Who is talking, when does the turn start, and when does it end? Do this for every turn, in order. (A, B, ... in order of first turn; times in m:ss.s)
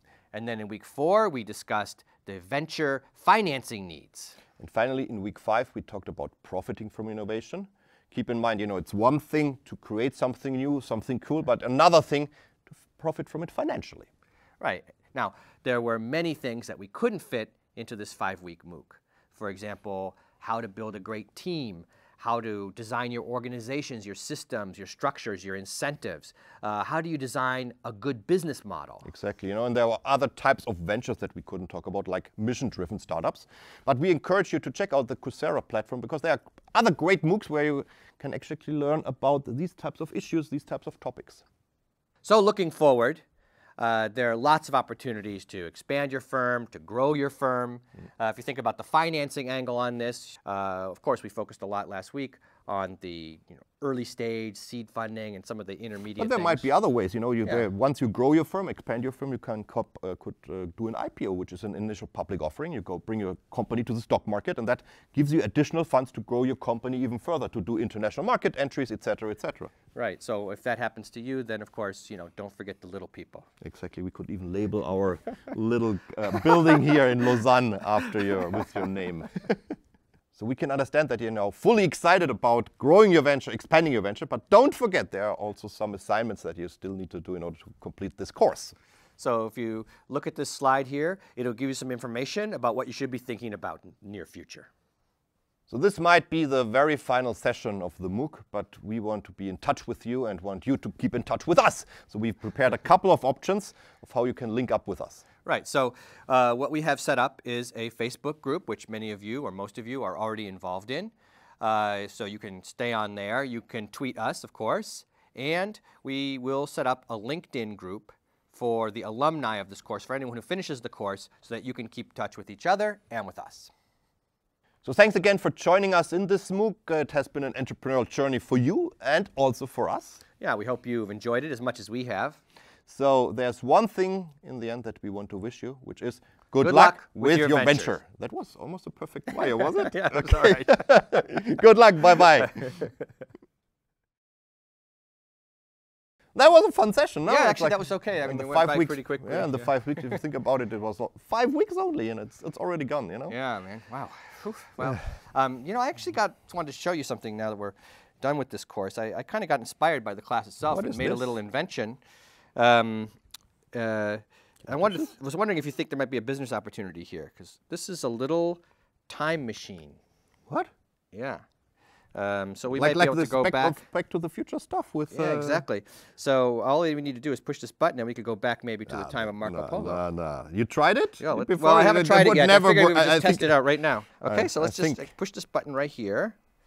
0:00.3-0:04.4 A
0:04.6-0:14.1 B
0:14.6-0:29.1 A
0:29.0-0:41.4 B
0:42.2-0:43.2 A
0:43.8-0:56.7 A
0:56.2-1:09.7 B
1:10.0-1:13.5 A
1:13.6-1:19.6 B
1:20.3-1:28.7 B
1:29.2-1:34.7 A
1:35.7-1:45.2 B
1:45.4-2:03.7 A
2:04.8-2:10.2 B
2:10.4-2:12.4 A
2:12.9-2:22.7 B
2:16.6-2:18.0 A
2:19.3-2:21.3 A
2:22.6-2:22.9 A
2:26.4-2:33.4 B
2:27.3-2:30.2 A
2:33.3-2:42.0 A
2:40.7-2:41.3 B
2:42.6-2:43.1 A
2:43.7-2:50.0 A
2:44.7-2:45.1 B
2:51.1-2:51.4 A
2:52.1-2:53.8 A
2:52.7-2:55.6 B
2:55.1-3:00.0 A
2:58.9-3:03.6 B
3:01.2-3:06.4 A
3:04.2-3:05.0 B